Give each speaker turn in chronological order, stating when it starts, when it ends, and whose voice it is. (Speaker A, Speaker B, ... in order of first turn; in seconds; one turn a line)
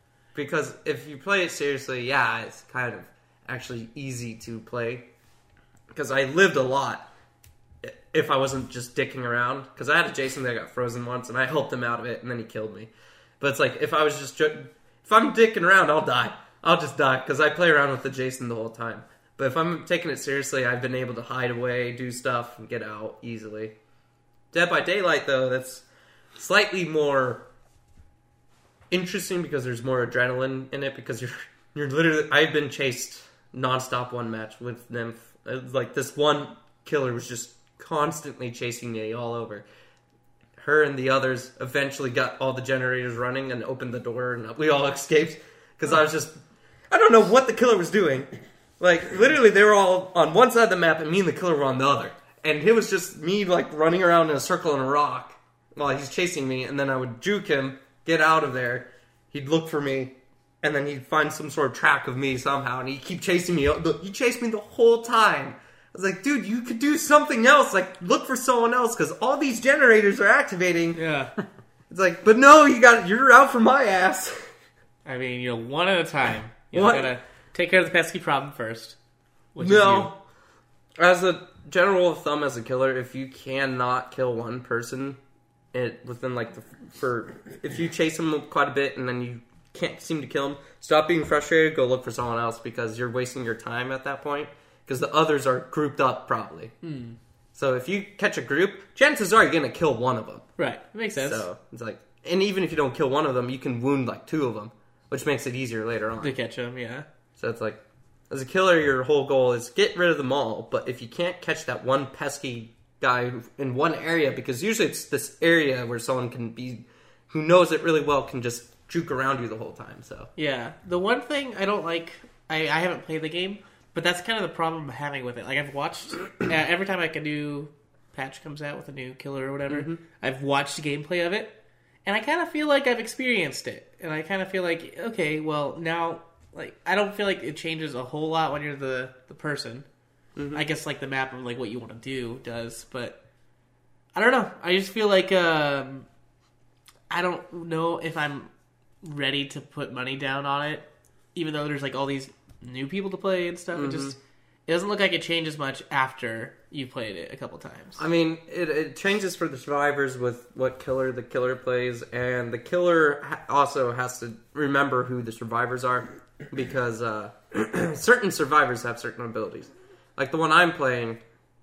Speaker A: 0.3-5.1
Speaker A: 5.9-7.1
Speaker A: 7.8-23.7
Speaker A: 24.5-25.8
Speaker A: 26.4-27.4
Speaker A: 28.9-39.6
Speaker A: 40.6-46.4
Speaker A: 46.9-48.3
Speaker A: 48.8-71.0
Speaker B: 70.9-71.3
Speaker A: 71.9-74.5
Speaker B: 75.0-79.0
Speaker A: 76.7-77.1
Speaker B: 79.5-80.1
Speaker A: 79.6-80.1
Speaker A: 81.0-85.2
Speaker A: 85.7-96.7
Speaker B: 96.8-97.2
Speaker A: 97.5-100.5
Speaker B: 100.6-101.4
Speaker A: 101.2-106.4
Speaker B: 106.2-107.0
Speaker A: 107.4-120.3
Speaker B: 120.4-139.9
Speaker A: 129.7-130.0
Speaker A: 140.4-140.6
Speaker B: 140.5-143.2
Speaker B: 144.1-146.1
Speaker B: 147.1-148.5
Speaker B: 149.0-158.0
Speaker A: 153.7-154.1
Speaker A: 158.0-171.2